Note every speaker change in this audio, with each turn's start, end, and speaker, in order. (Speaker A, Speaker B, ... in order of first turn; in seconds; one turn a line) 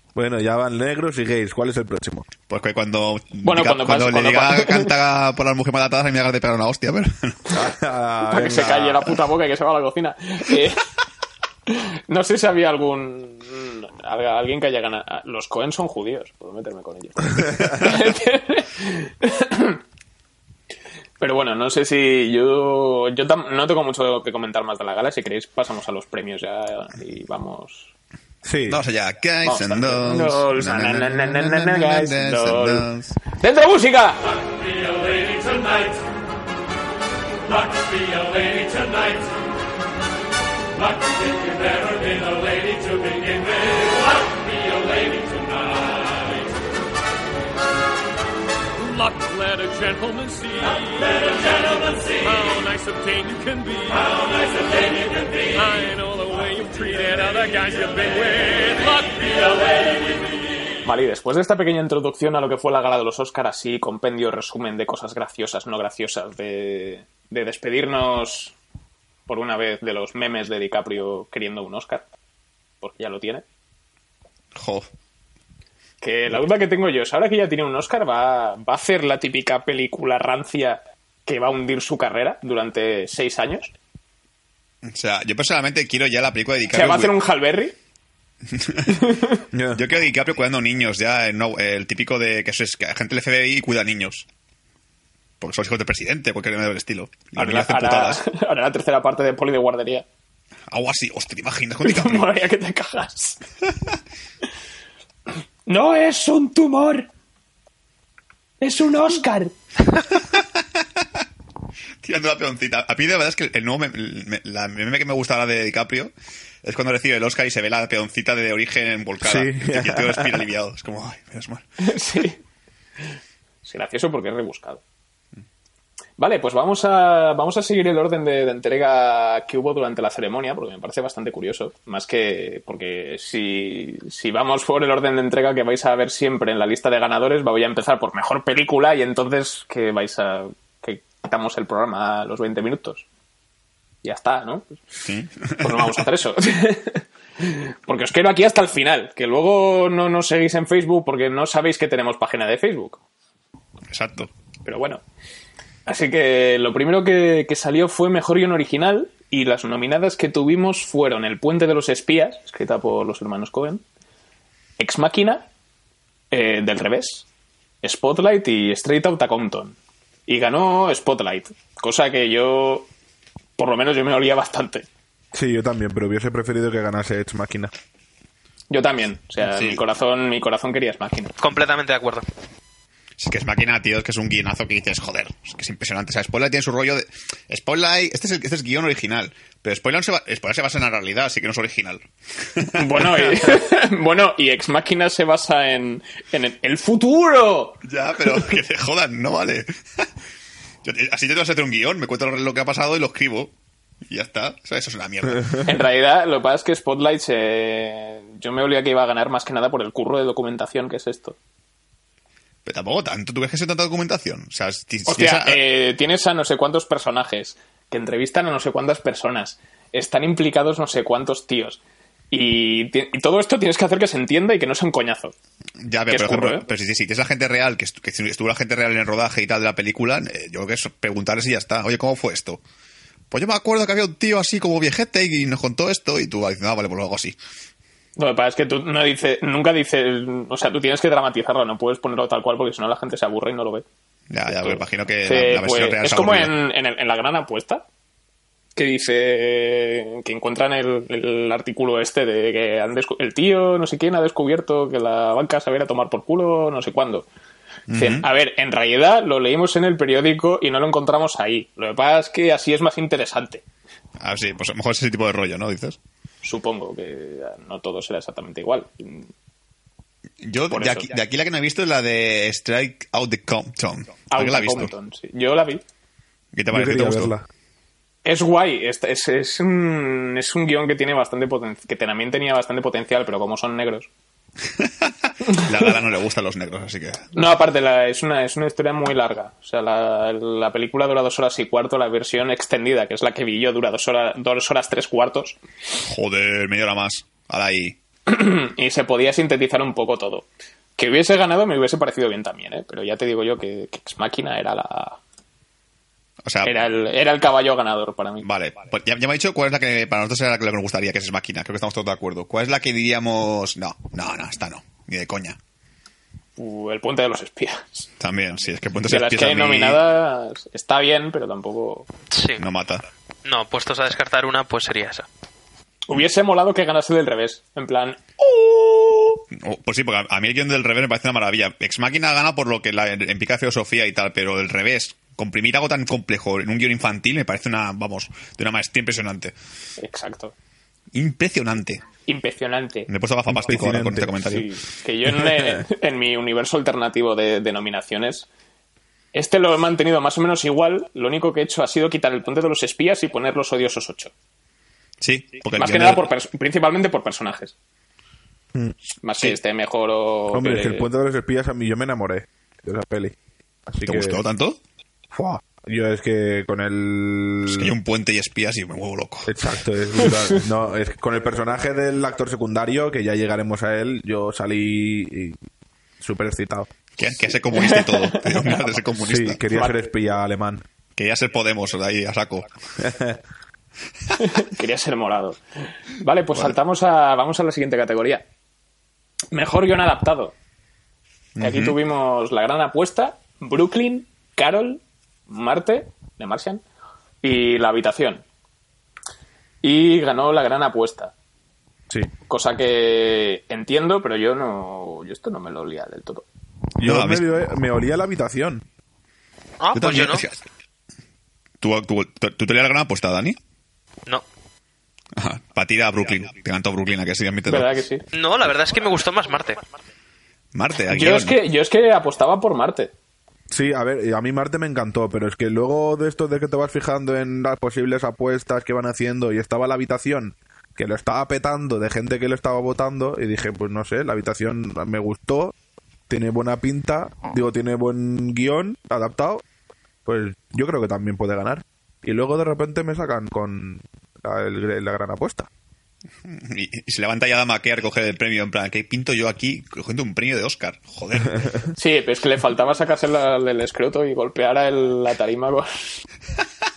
Speaker A: 0.1-2.3
Speaker B: 2.5-7.5
Speaker C: 3.4-4.9
Speaker A: 7.5-9.1
Speaker C: 8.3-10.9
Speaker C: 11.7-19.8
Speaker C: 21.2-27.9
Speaker A: 28.4-28.8
Speaker B: 28.7-33.2
Speaker C: 29.4-34.3
Speaker D: 41.7-43.5
Speaker D: 48.8-51.7
Speaker D: 52.2-55.0
Speaker D: 55.5-60.0
Speaker C: 60.8-68.5
Speaker C: 69.3-72.1
Speaker C: 72.8-73.4
Speaker B: 74.6-74.9
Speaker C: 76.0-83.7
Speaker B: 84.8-87.2
Speaker C: 86.7-87.8
Speaker B: 88.5-89.0
Speaker C: 88.9-89.4
Speaker A: 89.5-89.8
Speaker B: 89.7-94.3
Speaker B: 95.4-98.2
Speaker C: 97.4-100.0
Speaker B: 100.7-102.3
Speaker C: 101.8-103.4
Speaker C: 105.7-107.1
Speaker C: 108.6-109.5
Speaker B: 112.0-116.1
Speaker B: 116.6-121.6
Speaker A: 119.2-120.5
Speaker C: 121.8-122.4
Speaker C: 123.6-124.8
Speaker C: 126.2-143.1
Speaker C: 144.0-145.1
Speaker B: 145.1-146.0
Speaker C: 145.6-153.0
Speaker B: 153.9-154.3
Speaker C: 154.7-155.0
Speaker C: 155.9-163.8
Speaker C: 164.8-165.5
Speaker C: 166.3-167.3
Speaker C: 167.8-169.8
Speaker C: 170.3-172.9
Speaker C: 173.6-174.9
Speaker A: 175.3-177.7
Speaker C: 178.7-181.3
Speaker B: 179.5-179.8
Speaker E: 181.4-182.2
Speaker B: 183.2-193.6
Speaker C: 192.7-197.8
Speaker B: 197.8-200.1
Speaker B: 200.8-203.5
Speaker B: 204.1-205.7
Speaker C: 205.6-211.4
Speaker B: 212.7-215.6
Speaker C: 215.1-221.8
Speaker C: 222.3-225.3
Speaker B: 225.8-232.6
Speaker C: 226.1-226.7
Speaker B: 233.3-237.4
Speaker C: 238.2-243.8
Speaker B: 244.3-246.6
Speaker C: 244.5-247.8
Speaker C: 248.8-257.3
Speaker B: 257.9-258.3
Speaker C: 257.9-263.6
Speaker B: 264.2-266.0
Speaker C: 266.4-269.3
Speaker B: 270.4-274.9
Speaker C: 270.7-271.1
Speaker C: 274.3-275.8
Speaker B: 276.5-277.3
Speaker A: 276.7-277.5
Speaker C: 278.2-284.1
Speaker B: 284.8-287.3
Speaker C: 287.4-295.6
Speaker B: 296.0-298.0
Speaker C: 298.3-305.2
Speaker B: 306.4-306.8
Speaker C: 306.6-308.5
Speaker B: 308.4-315.6
Speaker C: 316.6-318.1
Speaker B: 318.2-320.0
Speaker C: 319.1-322.1
Speaker E: 322.3-322.6
Speaker B: 322.6-323.0
Speaker E: 323.4-325.3
Speaker C: 326.1-329.4
Speaker B: 329.5-339.6
Speaker C: 340.0-340.5
Speaker B: 341.1-342.0
Speaker C: 342.3-343.1
Speaker B: 343.1-344.7
Speaker A: 343.5-344.6
Speaker C: 344.4-348.5
Speaker C: 349.3-354.3
Speaker B: 355.2-356.2
Speaker C: 355.8-357.7
Speaker C: 359.2-361.1
Speaker A: 360.5-363.4
Speaker A: 363.9-364.4
Speaker B: 364.1-364.8
Speaker A: 365.3-367.9
Speaker B: 367.7-369.5
Speaker A: 369.5-375.6
Speaker C: 370.2-370.6
Speaker A: 376.2-376.9
Speaker B: 377.2-379.6
Speaker C: 377.7-378.7
Speaker A: 379.2-380.8
Speaker C: 379.7-380.0
Speaker B: 381.2-382.7
Speaker A: 383.0-383.4
Speaker C: 384.4-385.6
Speaker C: 386.2-388.4
Speaker C: 389.5-390.5
Speaker B: 391.6-392.0
Speaker C: 391.6-396.8
Speaker C: 397.4-398.4
Speaker C: 399.8-401.3
Speaker C: 402.5-406.4
Speaker A: 407.0-408.8
Speaker B: 407.0-407.4
Speaker E: 409.8-410.5
Speaker B: 409.9-410.6
Speaker B: 411.8-413.6
Speaker B: 415.4-418.0
Speaker C: 417.7-418.2
Speaker E: 418.3-419.8
Speaker B: 420.7-421.6
Speaker C: 421.1-423.1
Speaker A: 423.7-435.8
Speaker A: 436.3-439.6
Speaker A: 440.3-445.7
Speaker B: 446.4-451.9
Speaker C: 452.0-456.2